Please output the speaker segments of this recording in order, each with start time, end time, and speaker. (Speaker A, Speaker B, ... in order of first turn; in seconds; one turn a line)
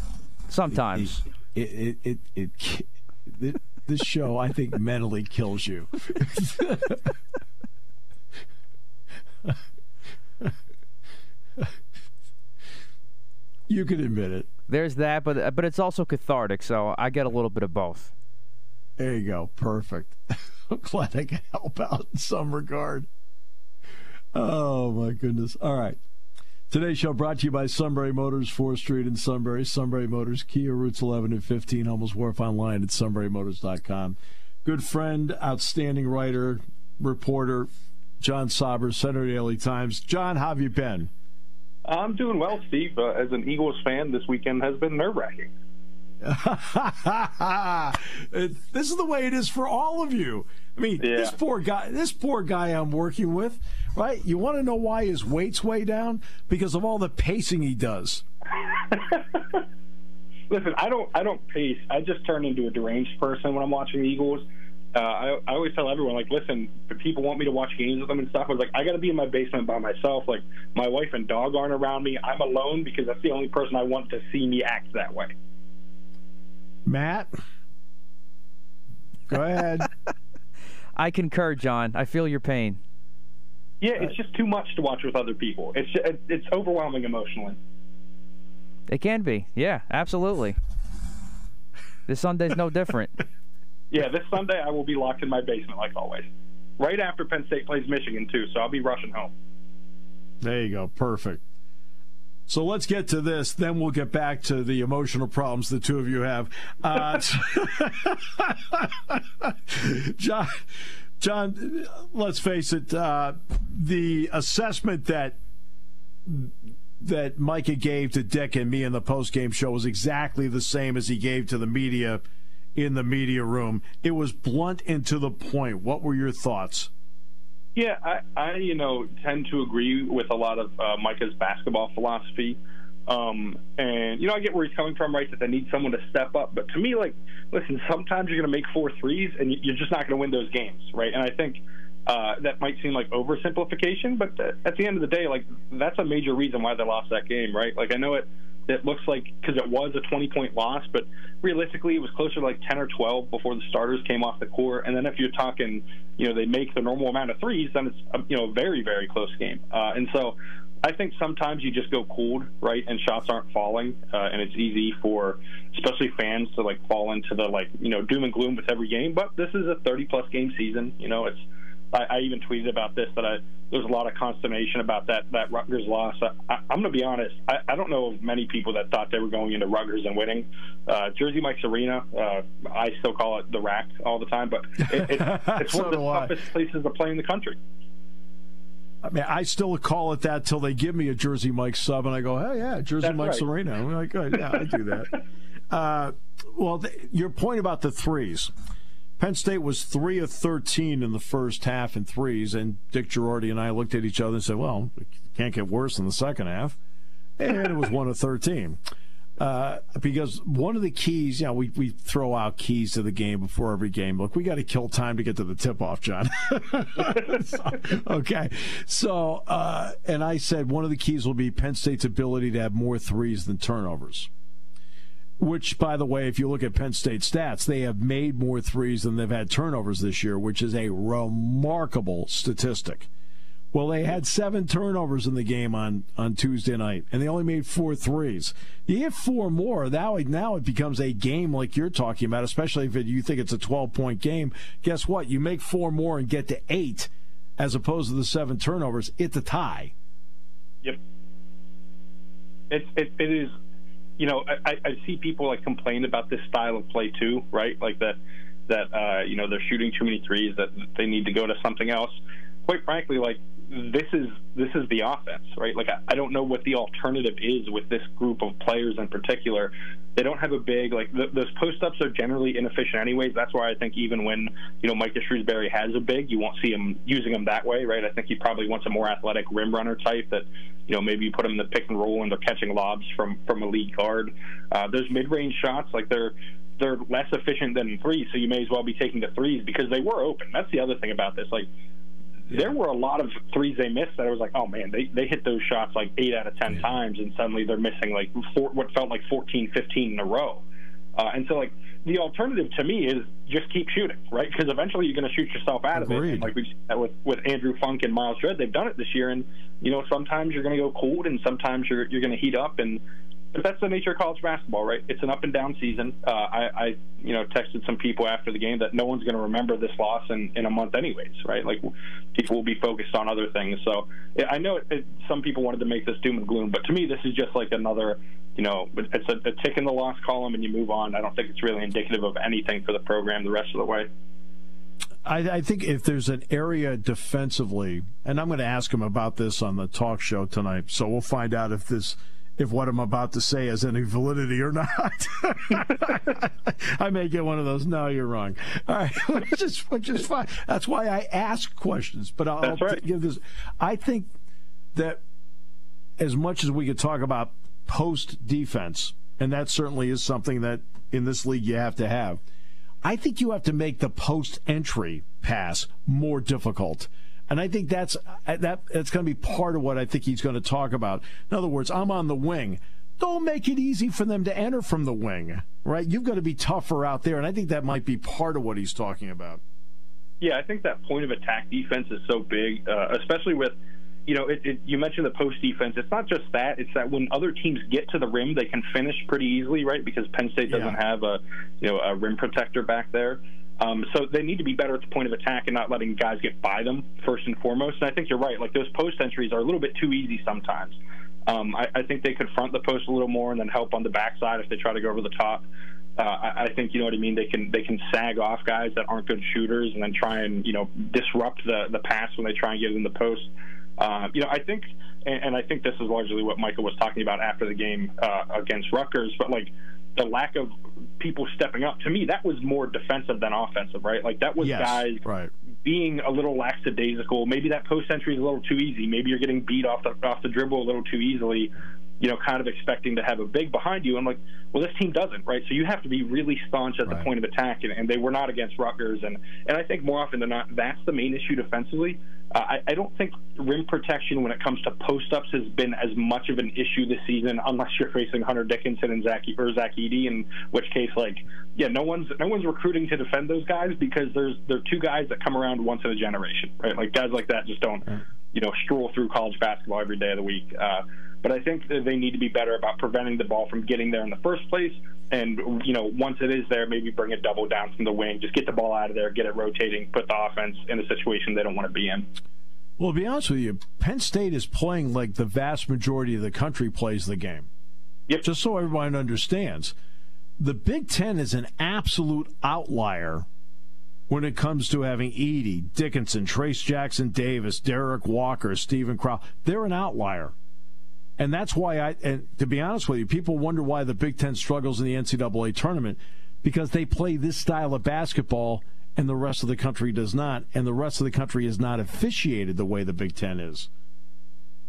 Speaker A: 0.5-1.2
Speaker B: 0.7-7.2
Speaker B: 13.7-14.5
Speaker A: 14.7-18.1
Speaker B: 19.0-23.1
Speaker B: 24.3-26.0
Speaker B: 26.7-37.7
Speaker B: 38.2-41.1
Speaker C: 41.9-45.5
Speaker B: 46.2-58.2
Speaker C: 51.0-51.4
Speaker C: 58.6-59.6
Speaker C: 60.5-75.3
Speaker B: 76.8-77.3
Speaker B: 79.3-79.9
Speaker A: 81.0-82.8
Speaker C: 83.8-87.6
Speaker A: 88.9-90.6
Speaker A: 92.1-93.2
Speaker C: 93.9-99.3
Speaker B: 100.4-101.4
Speaker B: 102.5-115.4
Speaker B: 116.2-122.2
Speaker B: 122.8-126.9
Speaker C: 127.8-187.6
Speaker B: 184.8-186.4
Speaker B: 189.0-195.1
Speaker C: 193.0-193.4
Speaker B: 195.7-198.5
Speaker B: 199.2-206.8
Speaker B: 207.4-208.8
Speaker B: 209.4-224.3
Speaker B: 225.4-233.1
Speaker B: 233.7-249.9
Speaker C: 252.7-253.5
Speaker C: 254.2-291.7
Speaker C: 292.5-300.6
Speaker C: 301.2-313.0
Speaker B: 305.9-306.5
Speaker C: 313.5-334.1
Speaker B: 335.2-354.3
Speaker C: 352.6-353.0
Speaker B: 354.9-355.2
Speaker B: 356.2-362.4
Speaker B: 363.0-379.6
Speaker C: 380.4-383.8
Speaker C: 384.3-405.6
Speaker B: 390.7-391.0
Speaker C: 406.2-425.2
Speaker B: 424.6-425.5
Speaker C: 425.8-472.3
Speaker B: 473.0-477.7
Speaker B: 478.4-479.9
Speaker B: 480.6-483.5
Speaker B: 484.3-490.5
Speaker B: 491.4-503.9